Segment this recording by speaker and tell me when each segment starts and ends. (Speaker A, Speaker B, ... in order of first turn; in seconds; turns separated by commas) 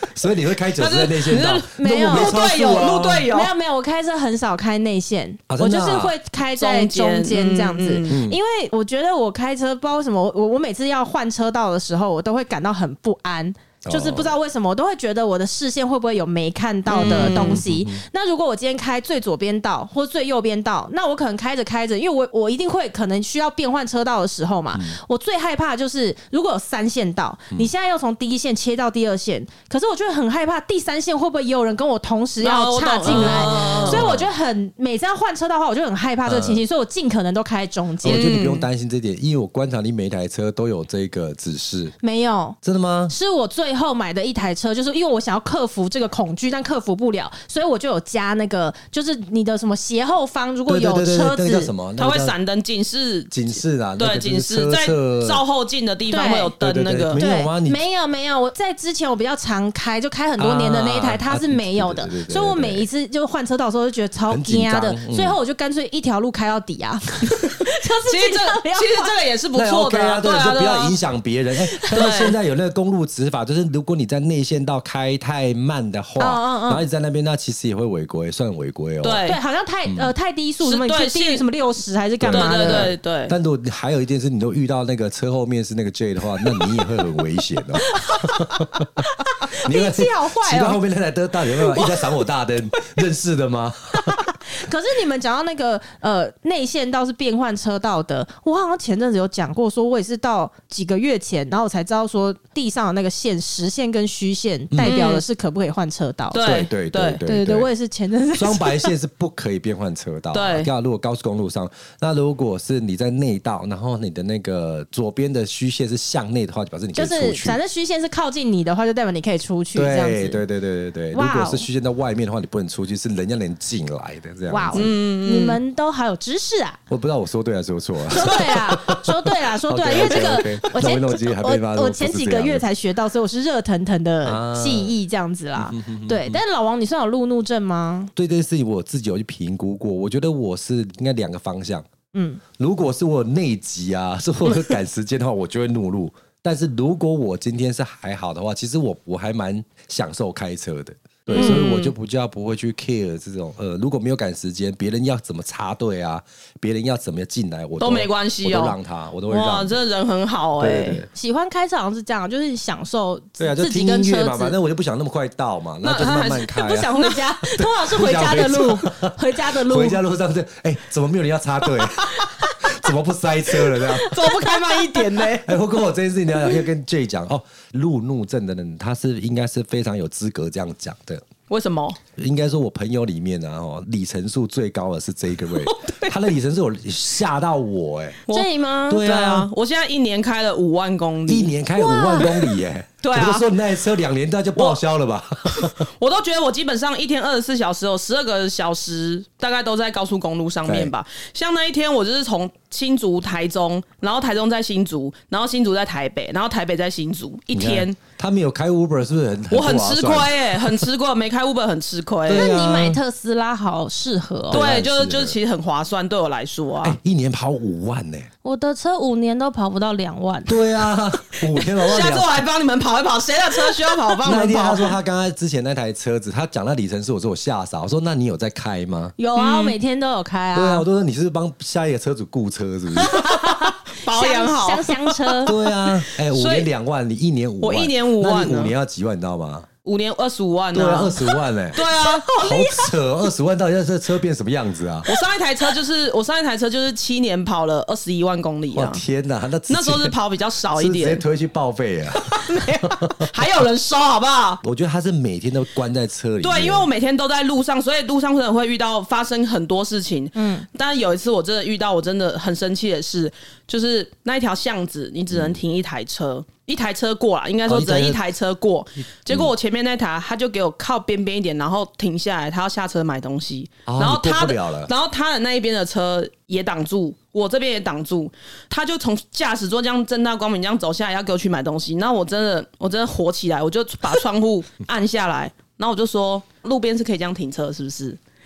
Speaker A: 0.1-3.3, Speaker B: 0.8-3.5, Speaker C: 1.7-2.5, Speaker C: 3.3-38.3, Speaker A: 5.5-6.2, Speaker B: 6.6-8.2, Speaker A: 8.1-8.4, Speaker A: 13.8-14.3, Speaker B: 16.9-17.6, Speaker A: 16.9-18.0, Speaker B: 32.4-34.1, Speaker A: 33.0-34.3, Speaker A: 36.2-36.6, Speaker A: 38.0-42.0, Speaker B: 38.0-38.7, Speaker C: 42.0-42.6, Speaker A: 42.6-43.1, Speaker C: 43.1-51.7, Speaker A: 50.7-52.4, Speaker B: 52.0-53.5, Speaker A: 53.3-55.4, Speaker B: 54.0-57.2, Speaker C: 56.1-56.5, Speaker A: 56.6-57.8, Speaker C: 57.1-69.1, Speaker A: 60.4-62.9, Speaker A: 64.3-65.4, Speaker B: 68.1-71.0, Speaker A: 69.5-79.2, Speaker C: 71.7-72.0, Speaker B: 71.9-72.4, Speaker C: 76.2-76.8, Speaker B: 79.0-79.4, Speaker C: 79.2-82.9, Speaker A: 79.9-80.1, Speaker B: 80.6-81.4, Speaker A: 82.2-89.0, Speaker B: 82.3-83.3, Speaker C: 87.9-90.8, Speaker A: 89.6-94.3, Speaker C: 91.6-92.0, Speaker C: 94.0-106.5, Speaker A: 104.7-105.0, Speaker B: 104.8-105.2, Speaker B: 106.3-107.2, Speaker A: 106.4-107.7, Speaker C: 107.2-108.9, Speaker A: 108.4-117.6, Speaker B: 110.3-110.7, Speaker C: 116.9-120.4, Speaker A: 119.8-124.9, Speaker C: 121.1-121.7, Speaker C: 124.5-126.8, Speaker B: 124.7-125.6, Speaker A: 126.9-132.6, Speaker C: 128.1-138.1, Speaker A: 134.2-134.9, Speaker A: 135.6-136.4, Speaker A: 138.2-141.9, Speaker C: 142.1-142.4, Speaker A: 142.6-159.8, Speaker B: 151.3-151.9, Speaker C: 151.3-151.7, Speaker B: 157.8-158.8, Speaker B: 159.3-161.0, Speaker A: 160.6-161.1, Speaker C: 161.1-164.6, Speaker A: 163.4-174.2, Speaker B: 165.8-167.2, Speaker C: 166.1-170.0, Speaker C: 172.2-172.6, Speaker C: 173.8-175.3, Speaker B: 173.9-175.5, Speaker A: 175.4-181.2, Speaker B: 181.5-182.0, Speaker A: 182.2-188.2, Speaker B: 185.6-186.2, Speaker B: 188.3-191.6, Speaker C: 188.3-189.1, Speaker A: 188.9-189.5, Speaker A: 191.3-195.9, Speaker C: 191.8-192.3, Speaker B: 193.0-193.5, Speaker B: 195.5-208.0, Speaker A: 200.7-200.9, Speaker A: 207.5-210.9, Speaker B: 209.5-212.5, Speaker A: 212.3-213.0, Speaker C: 212.3-214.6, Speaker A: 214.5-215.4, Speaker B: 214.5-217.0, Speaker A: 216.8-218.3, Speaker C: 218.4-220.6, Speaker A: 220.5-222.4, Speaker B: 221.6-225.0, Speaker A: 224.2-229.2, Speaker C: 229.2-230.9, Speaker B: 229.3-229.8, Speaker A: 230.5-233.2, Speaker C: 233.0-235.5, Speaker B: 233.2-236.7, Speaker A: 235.5-239.7, Speaker B: 237.6-238.7, Speaker B: 239.8-242.3, Speaker A: 240.7-245.1, Speaker C: 242.0-242.9, Speaker B: 245.1-249.0, Speaker A: 248.7-250.2, Speaker B: 249.7-251.2, Speaker A: 250.8-253.3, Speaker B: 252.3-254.6, Speaker A: 254.6-256.9, Speaker B: 256.4-288.2, Speaker C: 260.4-260.7, Speaker A: 265.3-265.6, Speaker A: 267.7-268.2, Speaker A: 269.3-269.5, Speaker A: 273.9-274.9